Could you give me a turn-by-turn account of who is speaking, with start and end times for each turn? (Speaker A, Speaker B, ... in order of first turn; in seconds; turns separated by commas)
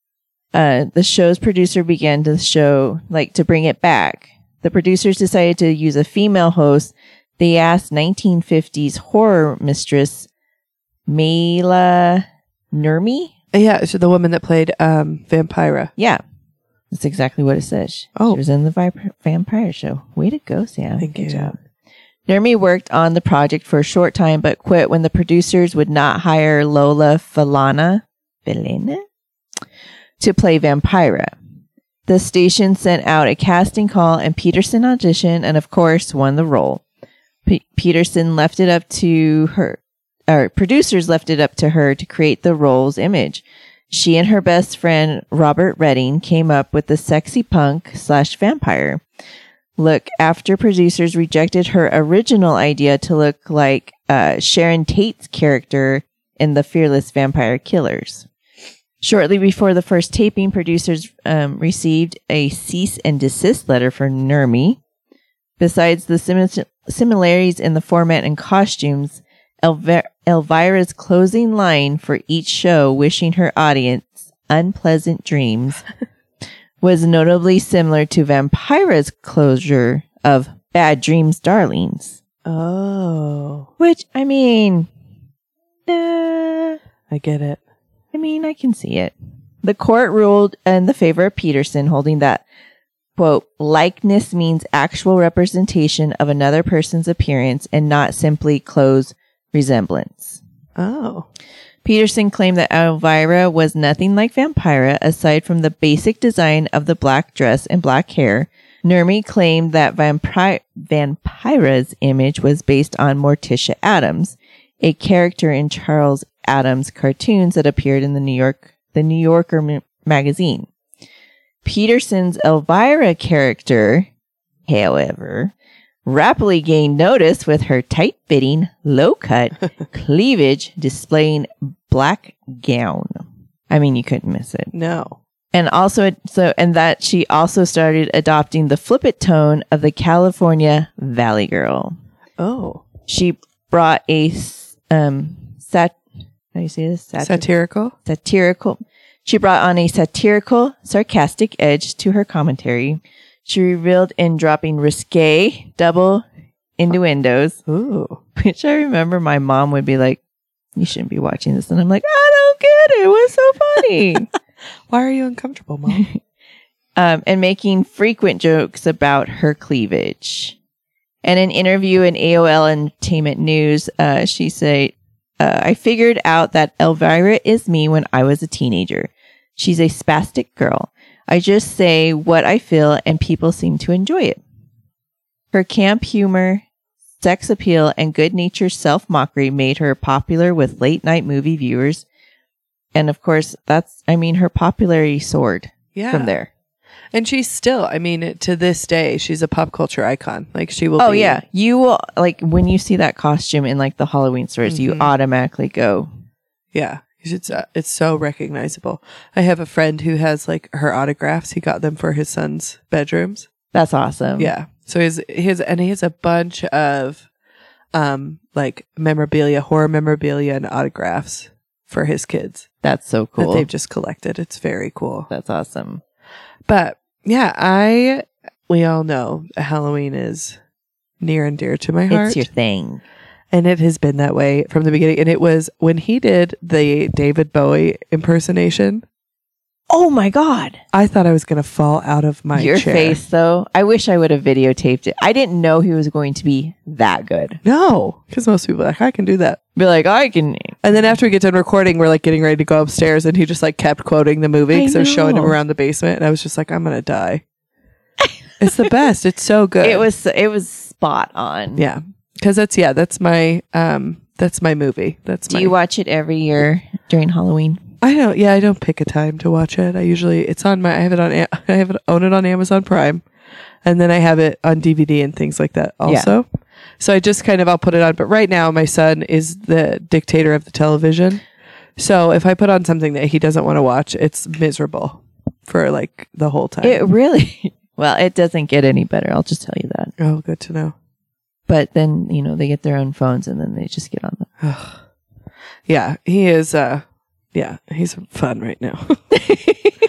Speaker A: 0.5-10.3, Speaker A: 11.1-13.3, Speaker B: 13.5-15.9, Speaker A: 16.0-16.2, Speaker A: 16.9-21.5, Speaker B: 21.0-21.5, Speaker A: 22.3-29.0, Speaker A: 30.2-31.3, Speaker A: 32.1-36.8, Speaker A: 37.5-49.0, Speaker A: 49.8-58.3, Speaker A: 59.0-64.8, Speaker A: 65.6-75.8, Speaker A: 76.8-82.2, Speaker B: 82.5-83.7, Speaker A: 83.8-84.9, Speaker A: 85.9-86.8, Speaker B: 87.1-87.6, Speaker A: 88.1-92.4, Speaker A: 93.2-100.4, Speaker B: 100.8-101.3, Speaker A: 101.8-120.7, Speaker A: 121.6-124.1, Speaker A: 124.7-125.5, Speaker A: 126.0-134.7, Speaker B: 134.7-135.2, Speaker A: 135.5-141.9, Speaker B: 142.4-142.8, Speaker A: 143.1-146.0, Speaker A: 146.6-147.5, Speaker B: 147.2-147.9, Speaker A: 148.1-156.2, Speaker A: 156.8-157.6, Speaker B: 157.7-158.2, Speaker A: 158.4-160.2, Speaker A: 160.8-164.3, Speaker B: 164.9-166.1, Speaker A: 165.9-166.2, Speaker A: 166.9-170.6, Speaker A: 171.2-184.4, Speaker A: 185.5-186.6, Speaker A: 187.2-192.0, Speaker A: 192.9-196.5, Speaker B: 195.9-196.4, Speaker B: 197.1-201.4, Speaker A: 201.0-206.1, Speaker B: 204.6-205.1, Speaker B: 206.7-213.5, Speaker A: 213.7-214.5, Speaker B: 214.4-217.3, Speaker B: 217.9-222.7, Speaker A: 222.8-223.7, Speaker B: 223.4-225.3, Speaker A: 225.3-226.0, Speaker B: 226.7-230.6, Speaker B: 231.2-232.5, Speaker A: 232.1-233.0, Speaker B: 233.5-239.0, Speaker A: 239.9-240.8, Speaker B: 240.9-243.2, Speaker A: 242.5-247.6, Speaker B: 247.6-249.6, Speaker A: 249.8-250.8, Speaker B: 250.8-257.4, Speaker A: 254.7-255.6, Speaker B: 258.6-260.1, Speaker A: 259.8-261.8, Speaker B: 261.8-265.7, Speaker A: 265.5-267.8, Speaker B: 268.0-273.2, Speaker B: 273.8-276.4, Speaker A: 276.1-276.3, Speaker B: 277.0-281.4, Speaker B: 282.0-287.0, Speaker A: 286.8-290.1, Speaker B: 290.2-290.9, Speaker A: 291.7-294.5, Speaker B: 294.6-295.0, Speaker B: 295.9-299.4